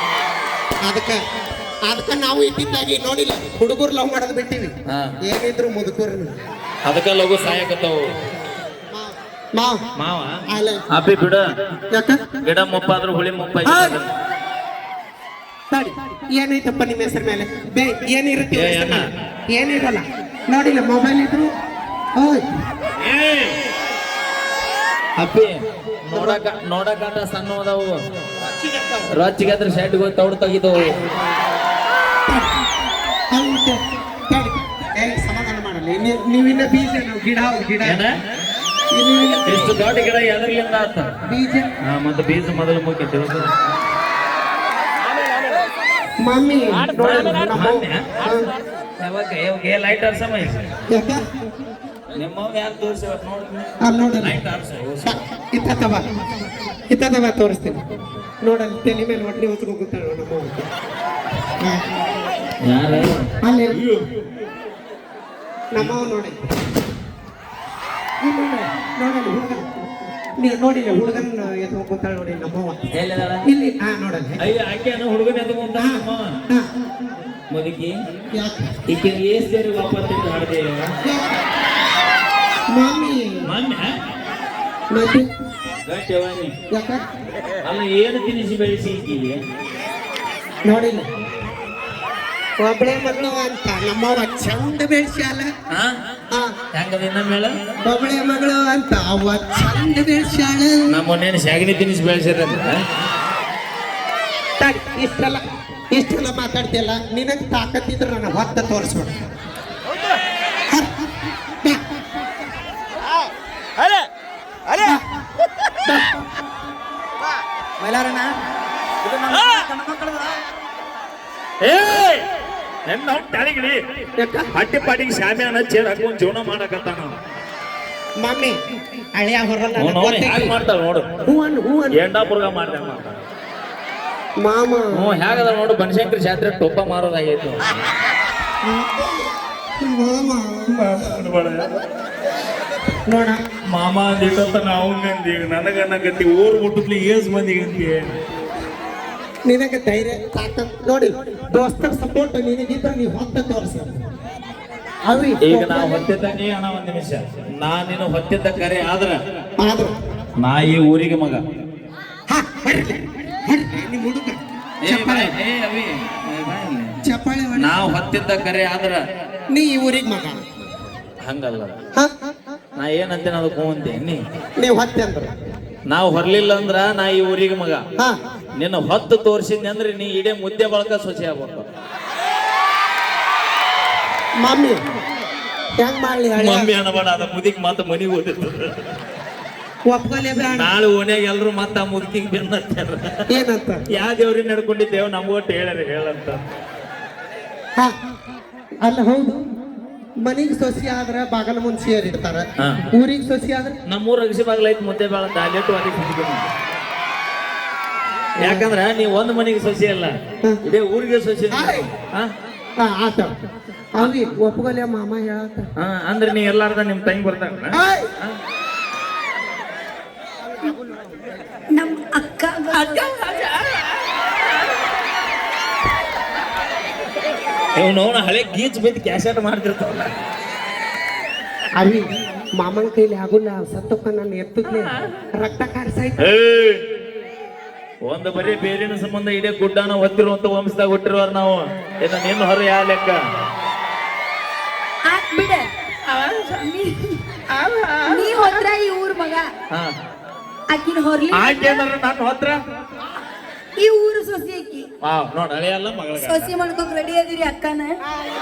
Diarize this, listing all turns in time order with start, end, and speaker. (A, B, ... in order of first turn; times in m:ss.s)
0:00.8-0:01.2 A
0:01.9-0:06.3 A
0:06.8-0:08.0 B
0:08.9-0:09.8 A
0:10.0-0:10.4 B
0:10.5-0:10.8 A
0:10.9-0:11.4 B
0:11.9-0:12.4 A
0:12.4-0:14.1 B
0:13.6-0:14.0 A
0:15.7-0:21.5 A
0:18.5-0:19.0 B
0:22.2-0:22.4 A
0:23.0-0:23.6 B
0:25.2-0:28.0 B
0:26.1-0:26.4 A
0:28.6-0:29.1 A
0:29.1-0:31.0 B
0:33.3-0:33.8 A
0:34.3-0:38.0 A
0:37.8-0:38.1 B
0:38.9-0:40.1 A
0:39.4-0:41.1 B
0:41.2-0:41.7 A
0:41.8-0:43.5 B
0:46.2-0:48.4 A
0:47.0-0:48.1 B
0:49.0-0:50.7 B
0:50.9-0:51.2 A
0:52.1-0:55.2 B
0:53.8-0:54.4 A
0:55.0-0:56.0 A
0:56.9-0:57.8 A
0:58.4-1:00.7 A
1:02.6-1:03.3 B
1:03.4-1:03.8 A
1:05.7-1:06.4 A
1:08.2-1:09.6 A
1:10.4-1:12.8 A
1:12.9-1:13.4 B
1:13.4-1:14.5 A
1:14.4-1:16.4 B
1:15.7-1:16.6 A
1:17.5-1:17.9 B
1:18.3-1:18.7 A
1:18.9-1:20.9 B
1:21.0-1:21.3 A
1:22.7-1:23.4 A
1:23.5-1:23.9 B
1:24.9-1:25.3 A
1:25.8-1:26.5 B
1:26.7-1:27.0 A
1:27.6-1:29.4 B
1:30.6-1:31.1 A
1:32.6-1:35.5 A
1:36.7-1:37.5 B
1:37.8-1:41.0 A
1:40.9-1:42.8 B
1:44.6-1:49.2 A
1:55.9-1:56.2 A
1:57.8-1:58.3 A
1:59.1-1:59.4 B
1:59.8-2:00.3 A
2:01.6-2:02.2 B
2:02.9-2:03.8 B
2:04.2-2:04.5 A
2:04.5-2:07.1 B
2:08.2-2:08.6 A
2:09.2-2:10.6 A
2:09.8-2:11.1 B
2:11.2-2:12.0 A
2:12.0-2:13.2 B
2:14.4-2:15.1 A
2:14.9-2:17.6 B
2:18.6-2:19.2 A
2:19.8-2:21.1 A
2:20.7-2:21.7 B
2:23.1-2:23.4 A
2:23.7-2:28.2 B
2:29.4-2:34.0 A
2:35.0-2:36.1 A
2:35.4-2:39.2 B
2:39.6-2:39.9 A
2:40.4-2:41.4 B
2:42.3-2:45.4 A
2:44.8-2:46.9 B
2:47.0-2:47.9 A
2:47.5-2:49.0 B
2:49.5-2:50.4 A
2:51.2-2:51.7 B
2:52.8-2:54.2 B
2:54.6-2:55.3 A
2:55.9-2:57.8 B
2:58.6-3:01.7 B
3:04.4-3:04.8 A
3:05.8-3:06.7 A
3:06.4-3:08.8 B
3:09.9-3:10.7 A
3:10.5-3:13.2 B
3:13.3-3:13.8 A
3:13.9-3:16.4 B
3:18.8-3:19.4 A
3:20.2-3:23.8 A
3:23.9-3:26.5 B
3:28.4-3:28.7 A
3:28.4-3:30.1 B
3:30.6-3:32.3 B
3:31.5-3:31.9 A
3:32.8-3:33.3 A
3:33.9-3:35.7 A
3:34.0-3:34.2 B
3:35.8-3:38.3 B
3:37.7-3:38.1 A
3:41.7-3:43.1 C
3:42.7-3:43.9 B
3:47.7-3:50.1 B
3:51.8-3:52.0 A
3:52.5-3:56.2 A
3:56.2-3:56.8 B
3:58.1-4:03.2 B
4:05.0-4:05.7 C
4:06.1-4:06.6 B
4:06.6-4:07.2 C
4:07.5-4:08.6 B
4:08.1-4:09.4 C
4:10.7-4:11.8 C
4:11.3-4:12.6 B
4:13.8-4:14.8 C
4:15.0-4:16.5 B
4:16.2-4:18.0 C